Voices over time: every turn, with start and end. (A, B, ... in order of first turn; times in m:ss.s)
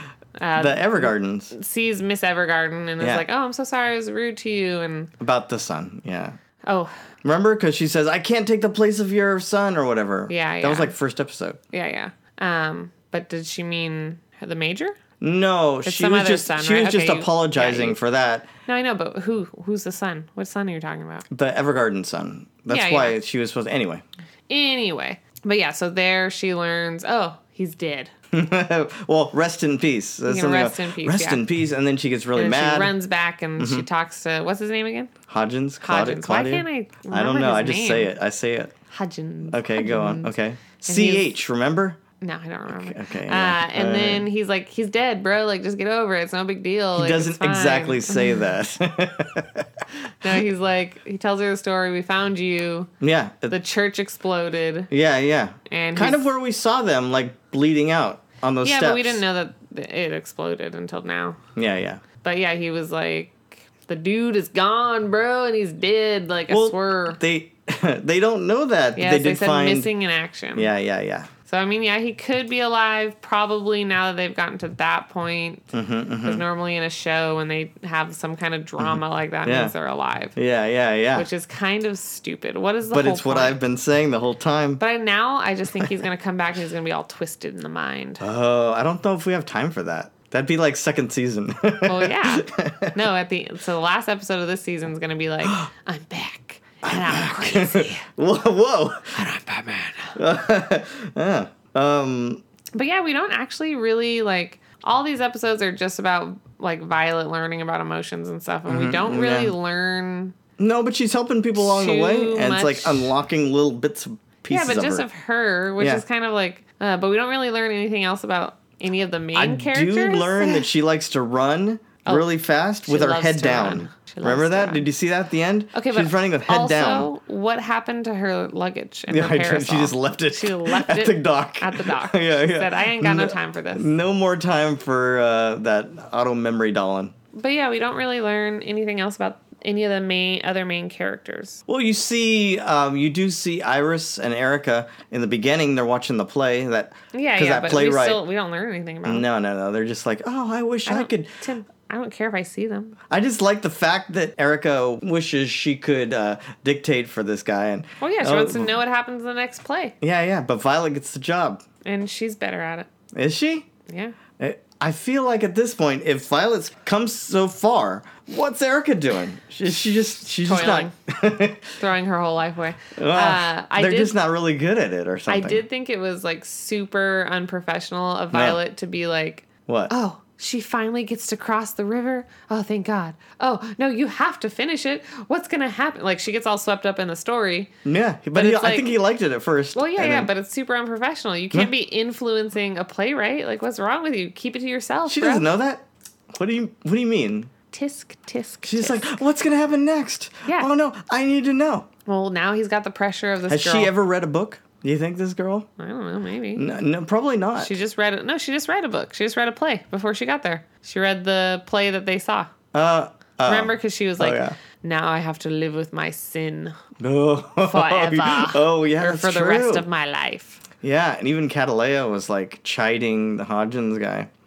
0:00.4-0:05.1 A
0:00.6-0:01.5 B
0:03.0-0:03.2 B
0:05.2-0:06.4 B
0:06.6-0:06.9 A
0:07.2-0:11.6 B
0:10.3-0:10.9 A
0:11.7-0:15.0 A
0:15.2-0:18.5 B
0:15.8-0:18.0 A
0:18.6-0:21.2 A
0:21.3-0:24.0 B
0:22.7-0:23.2 A
0:24.5-0:28.1 A
0:28.3-0:33.0 B
0:30.2-0:31.4 A
0:32.3-0:35.1 A
0:33.6-0:33.8 B
0:35.3-0:38.7 B
0:35.8-0:38.1 A
0:38.9-0:41.4 A
0:39.5-0:42.0 B
0:42.2-0:48.5 A
0:42.7-0:44.3 B
0:47.0-0:49.7 B
0:50.2-0:52.9 A
0:53.0-0:53.6 B
0:53.5-0:54.9 A
0:54.9-0:59.2 B
0:55.7-0:56.2 A
0:58.6-1:01.4 A
1:01.6-1:02.0 B
1:02.2-1:07.2 A
1:06.5-1:09.9 B
1:09.0-1:10.7 A
1:10.5-1:11.3 B
1:11.4-1:15.6 A
1:15.7-1:16.4 B
1:16.2-1:20.4 A
1:18.8-1:19.7 B
1:20.3-1:21.3 B
1:21.1-1:23.6 A
1:22.9-1:24.8 B
1:24.8-1:28.2 A
1:28.2-1:33.0 B
1:31.8-1:38.0 A
1:35.4-1:35.7 B
1:36.8-1:39.2 B
1:39.1-1:40.2 A
1:40.2-1:42.4 B
1:42.7-1:50.3 A
1:48.7-1:49.5 B
1:50.6-1:55.1 B
1:51.5-1:53.1 A
1:54.5-2:00.6 A
1:59.3-2:07.1 B
2:02.0-2:02.3 A
2:02.8-2:04.9 A
2:05.7-2:13.9 A
2:09.1-2:17.1 B
2:17.3-2:21.6 A
2:21.7-2:28.2 B
2:27.1-2:29.2 A
2:29.0-2:31.3 B
2:30.8-2:33.0 A
2:33.1-2:38.7 B
2:38.0-2:39.9 A
2:40.0-2:41.6 B
2:41.8-2:42.9 A
2:43.1-2:43.7 B
2:43.9-2:44.2 A
2:44.4-2:51.8 B
2:50.4-2:50.9 A
2:51.8-2:54.2 A
2:53.0-2:55.6 B
2:55.3-3:07.7 A
2:58.3-2:58.6 B
2:59.7-2:59.9 B
3:07.8-3:10.3 B
3:08.3-3:09.0 A
3:09.7-3:15.5 A
3:15.1-3:17.5 B
3:17.7-3:19.2 A
3:18.6-3:21.9 B
3:22.0-3:23.9 A
3:23.5-3:25.7 B
3:25.8-3:26.6 A
3:26.6-3:27.7 B
3:27.6-3:32.5 A
3:32.7-3:34.6 B
3:33.4-3:36.7 A
3:37.0-3:39.9 B
3:37.6-3:40.6 A
3:40.8-3:44.3 B